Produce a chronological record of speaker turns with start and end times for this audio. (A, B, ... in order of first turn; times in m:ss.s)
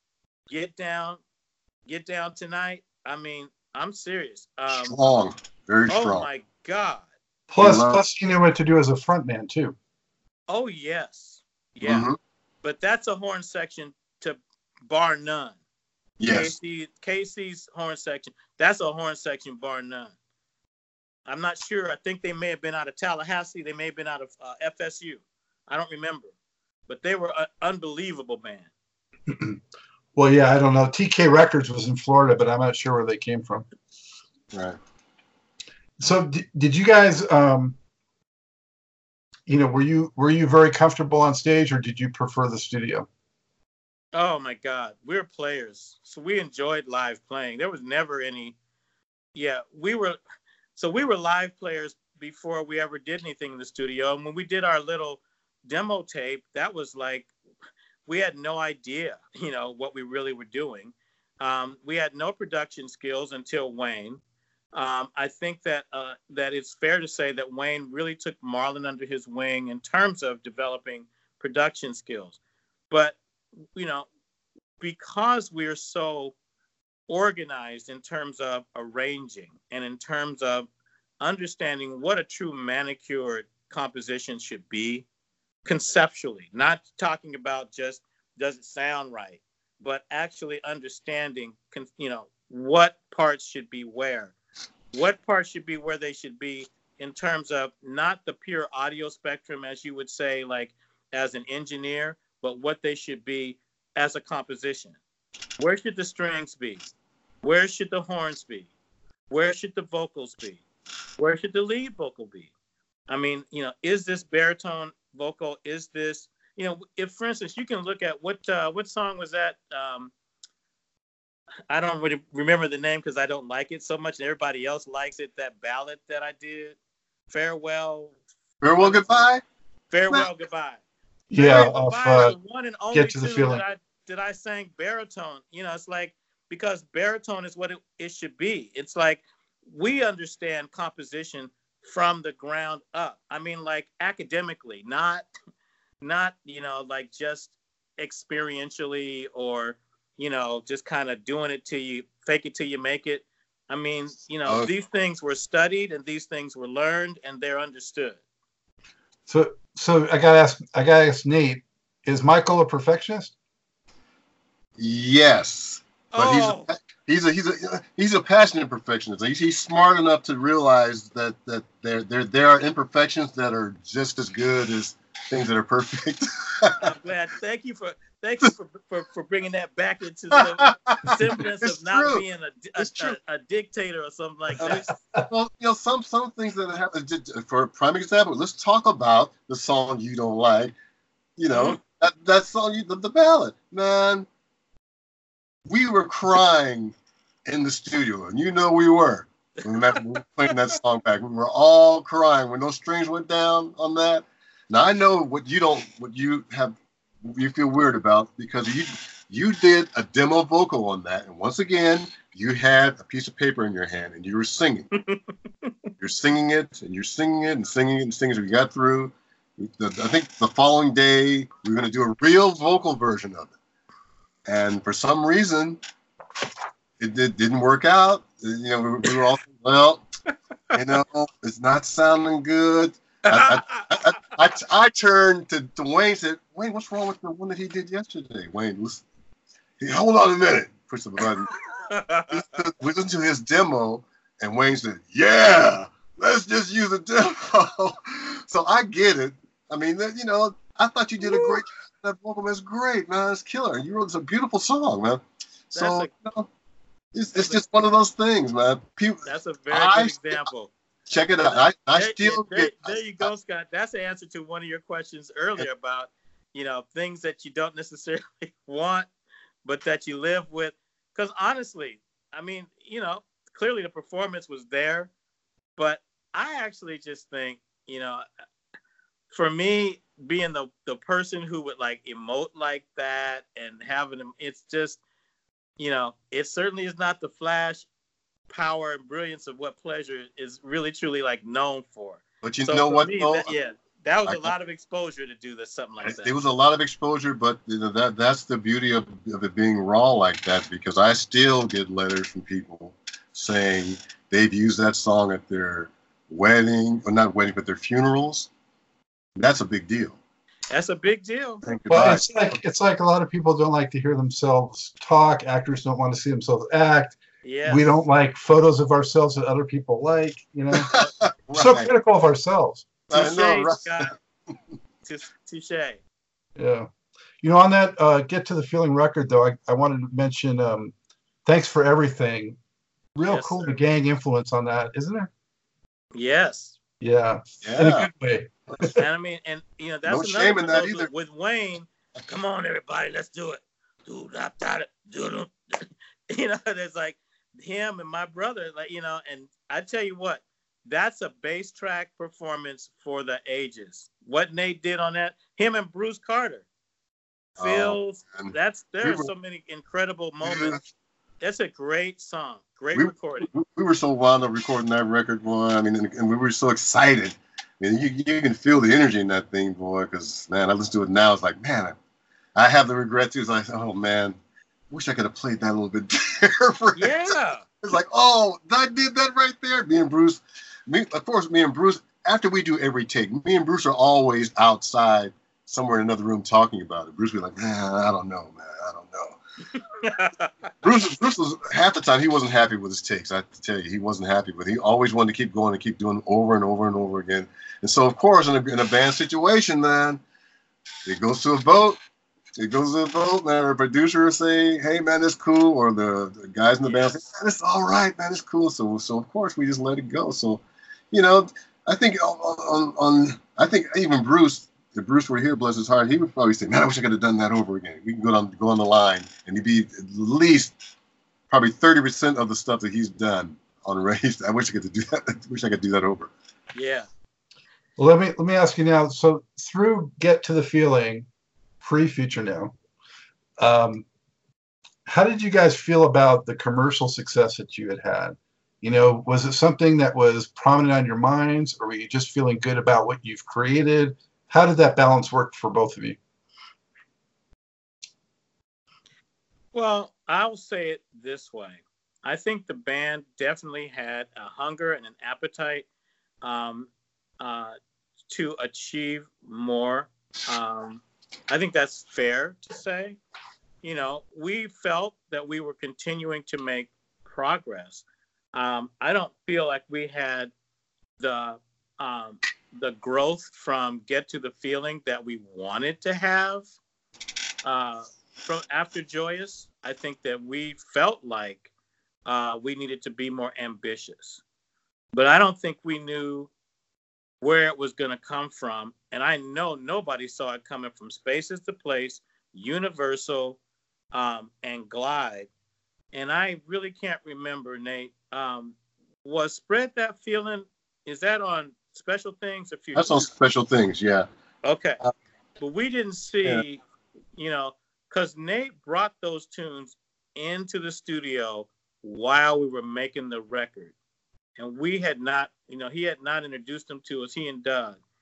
0:00.5-0:01.2 A
0:01.8-0:04.9 A
0:04.7-0:06.3 B
0:05.9-0:07.1 A
0:07.5-0:09.8 C
0:07.6-0:08.0 B
0:10.5-0:12.0 A
0:11.8-0:12.2 B
0:12.6-0:15.6 A
0:16.2-0:16.5 B
0:16.3-0:20.1 A
0:21.3-0:26.3 A
0:26.9-0:28.7 A
0:29.3-0:29.6 C
0:30.1-0:33.7 C
0:36.0-0:37.8 C
0:39.5-0:43.1 C
0:44.1-0:48.6 A
0:49.3-0:50.2 A
0:50.7-0:57.3 A
0:58.0-1:04.2 A
1:04.7-1:12.4 A
1:12.9-1:13.2 A
1:13.7-1:14.1 A
1:14.8-1:16.3 A
1:17.1-1:20.7 A
1:21.2-1:25.0 A
1:25.6-1:34.3 A
1:34.9-1:45.0 A
1:45.6-1:46.8 A
1:47.4-1:48.7 A
1:49.3-1:50.6 A
1:51.2-1:52.5 A
1:53.1-2:00.1 A
2:01.7-2:06.8 A
2:07.3-2:08.1 A
2:08.6-2:09.4 B
2:08.8-2:09.3 A
2:09.9-2:10.8 A
2:11.3-2:12.4 C
2:11.3-2:25.2 A
2:12.9-2:13.6 C
2:26.0-2:38.2 A
2:39.3-2:43.3 C
2:44.8-2:56.9 B
2:46.1-2:46.7 A
2:56.8-3:04.9 A
3:00.3-3:02.2 B
3:02.8-3:03.2 B
3:04.6-3:10.7 B
3:11.4-3:14.3 B
3:11.5-3:11.8 A
3:15.7-3:16.9 B
3:17.5-3:34.9 B
3:19.9-3:20.6 A
3:34.9-3:35.7 A
3:36.0-3:43.5 B
3:44.4-3:45.8 B
3:47.0-3:50.0 B
3:50.7-3:59.0 B
3:53.3-3:53.9 A
3:59.8-4:01.5 B
4:01.9-4:02.5 A
4:02.3-4:15.2 B
4:11.2-4:11.6 A
4:15.7-4:16.5 B
4:15.7-4:16.1 A
4:17.1-4:20.4 B
4:17.4-4:17.6 A
4:19.2-4:20.7 A
4:21.1-4:23.3 B
4:21.9-4:29.1 A
4:29.6-4:35.1 A
4:35.8-4:38.2 A
4:39.3-4:45.0 A
4:45.8-4:47.9 A
4:48.5-4:56.3 A
4:52.4-4:53.5 B
4:54.2-4:54.5 B
4:56.0-5:08.5 B
5:09.4-5:10.2 B
5:10.7-5:11.6 A
5:11.6-5:12.3 B
5:11.9-5:20.9 C
5:17.4-5:18.0 A
5:20.7-5:21.9 B
5:21.5-5:22.9 C
5:23.1-5:24.1 B
5:23.1-5:24.1 A
5:25.0-5:26.0 A
5:26.6-5:26.9 C
5:27.4-5:30.9 C
5:31.4-5:32.6 C
5:33.1-5:35.3 C
5:33.3-5:33.7 A
5:36.1-5:36.8 A
5:37.0-5:39.0 C
5:37.6-5:38.1 B
5:39.0-5:56.6 A
5:40.0-5:41.1 B
5:57.6-6:00.8 A
5:57.6-5:59.3 B
6:00.4-6:00.8 B
6:01.4-6:03.5 A
6:02.9-6:12.0 B
6:12.6-6:14.4 B
6:14.9-6:29.4 B
6:17.0-6:17.6 A
6:29.7-6:30.7 A
6:30.8-6:40.2 B
6:41.0-6:42.0 B
6:42.6-7:00.7 B
7:01.5-7:06.3 B
7:06.7-7:07.1 A
7:08.0-7:11.3 C
7:11.8-7:12.7 C
7:13.6-7:14.0 C
7:15.0-7:26.2 C
7:29.7-7:35.8 A
7:36.4-7:36.9 A
7:37.4-7:37.8 A
7:38.3-7:43.2 A
7:43.8-7:50.5 A
7:51.2-7:56.7 A
7:57.6-8:01.7 A
8:02.2-8:04.4 A
8:05.1-8:06.5 A
8:07.4-8:13.6 A
8:14.1-8:15.5 A
8:16.1-8:23.3 A
8:22.9-8:24.3 B
8:24.6-8:25.0 A
8:25.6-8:26.8 A
8:27.4-8:33.9 A
8:34.6-8:38.0 A